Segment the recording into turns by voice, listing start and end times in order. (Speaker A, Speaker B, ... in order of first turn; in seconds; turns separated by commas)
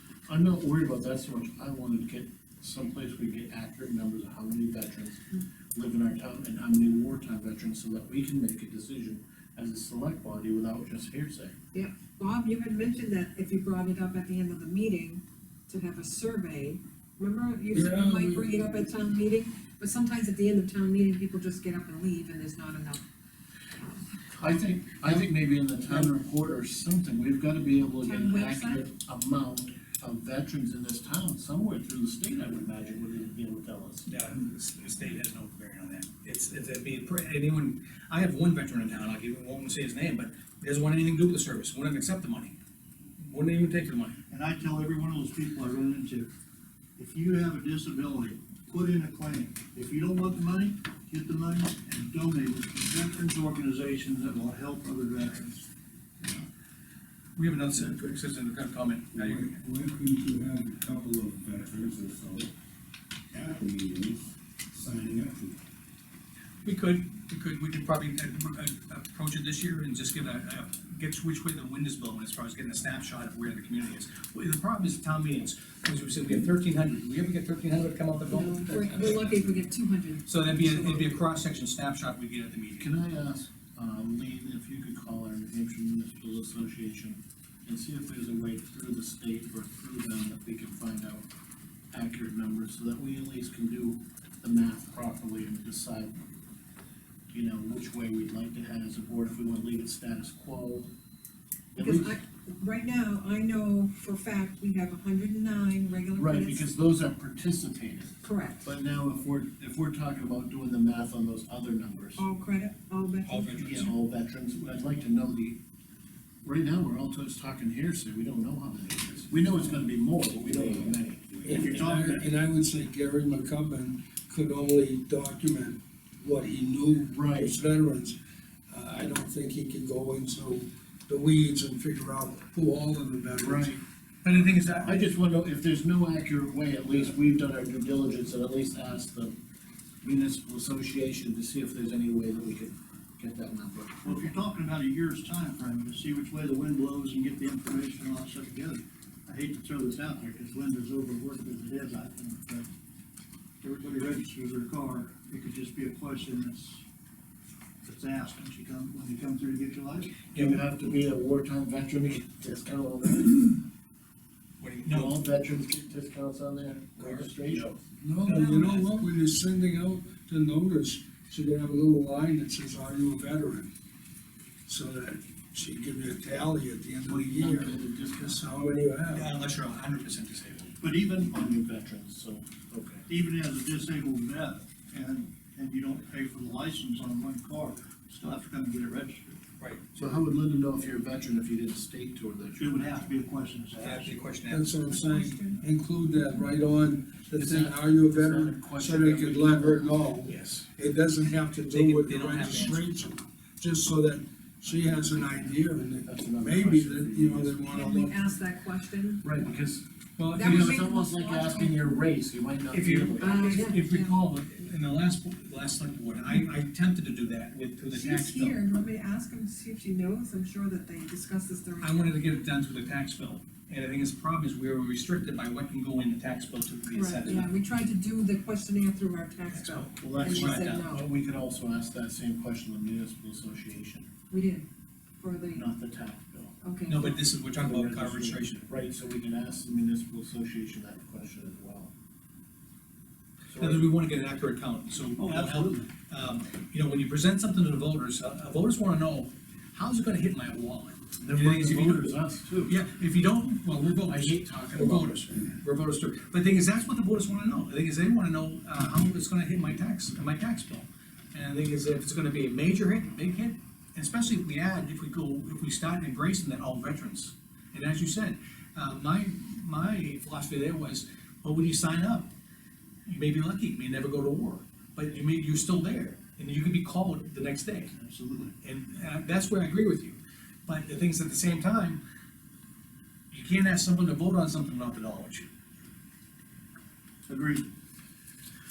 Speaker A: 0.3-5.2, Speaker A: 5.8-11.6, Speaker B: 11.7-23.0, Speaker C: 17.7-18.5, Speaker A: 24.4-34.1, Speaker B: 28.0-28.8, Speaker D: 34.1-42.6, Speaker D: 43.2-44.2, Speaker E: 44.3-46.3, Speaker E: 47.0-55.7, Speaker E: 56.2-56.5, Speaker D: 57.4-59.6, Speaker F: 59.1-62.5, Speaker F: 63.3-65.6, Speaker D: 66.6-79.6, Speaker B: 78.3-81.2, Speaker D: 80.3-82.9, Speaker A: 82.8-91.2, Speaker A: 91.9-96.2, Speaker A: 97.3-100.9, Speaker A: 101.8-102.2, Speaker B: 101.8-106.7, Speaker A: 106.2-112.3, Speaker B: 108.2-108.7, Speaker B: 112.2-113.6, Speaker D: 113.3-113.9, Speaker A: 113.5-115.6, Speaker A: 116.4-121.9, Speaker F: 120.2-121.6, Speaker C: 121.5-128.2, Speaker E: 121.5-122.3, Speaker A: 127.1-127.7, Speaker C: 128.7-133.7, Speaker A: 133.4-133.8, Speaker D: 134.2-134.9, Speaker A: 134.7-139.3, Speaker A: 140.0-144.1, Speaker B: 144.1-144.3, Speaker E: 144.1-152.7, Speaker E: 153.6-156.8, Speaker E: 157.8-160.3, Speaker D: 160.3-160.6, Speaker A: 160.3-163.6, Speaker D: 164.6-165.2, Speaker A: 164.9-167.7, Speaker D: 167.0-169.0, Speaker C: 168.0-173.7, Speaker C: 174.7-179.3, Speaker A: 177.1-178.6, Speaker D: 179.1-180.7, Speaker E: 180.8-181.3, Speaker A: 181.1-183.1, Speaker E: 183.1-189.4, Speaker D: 189.6-189.9, Speaker A: 190.0-192.9, Speaker E: 192.6-194.2, Speaker D: 193.8-194.7, Speaker C: 194.5-208.1, Speaker B: 194.8-195.7, Speaker A: 197.3-200.1, Speaker D: 200.3-200.7, Speaker D: 201.7-202.8, Speaker A: 204.8-207.6, Speaker B: 207.7-209.3, Speaker A: 209.2-213.6, Speaker D: 210.2-210.8, Speaker B: 210.3-212.0, Speaker D: 212.7-218.6, Speaker B: 213.2-214.1, Speaker B: 217.9-222.4, Speaker D: 221.8-227.5, Speaker B: 226.9-231.0, Speaker D: 229.5-230.8, Speaker A: 230.0-234.1, Speaker B: 234.3-234.7, Speaker B: 235.2-235.7, Speaker A: 235.5-236.5, Speaker B: 236.6-237.1, Speaker D: 236.9-238.7, Speaker A: 237.4-241.9, Speaker A: 243.5-243.9, Speaker D: 243.6-252.1, Speaker E: 245.2-245.9, Speaker A: 251.2-252.8, Speaker D: 252.7-272.3, Speaker A: 254.1-255.2, Speaker D: 273.1-277.9, Speaker E: 278.0-278.5, Speaker D: 278.6-282.0, Speaker D: 283.3-285.5, Speaker E: 287.3-287.7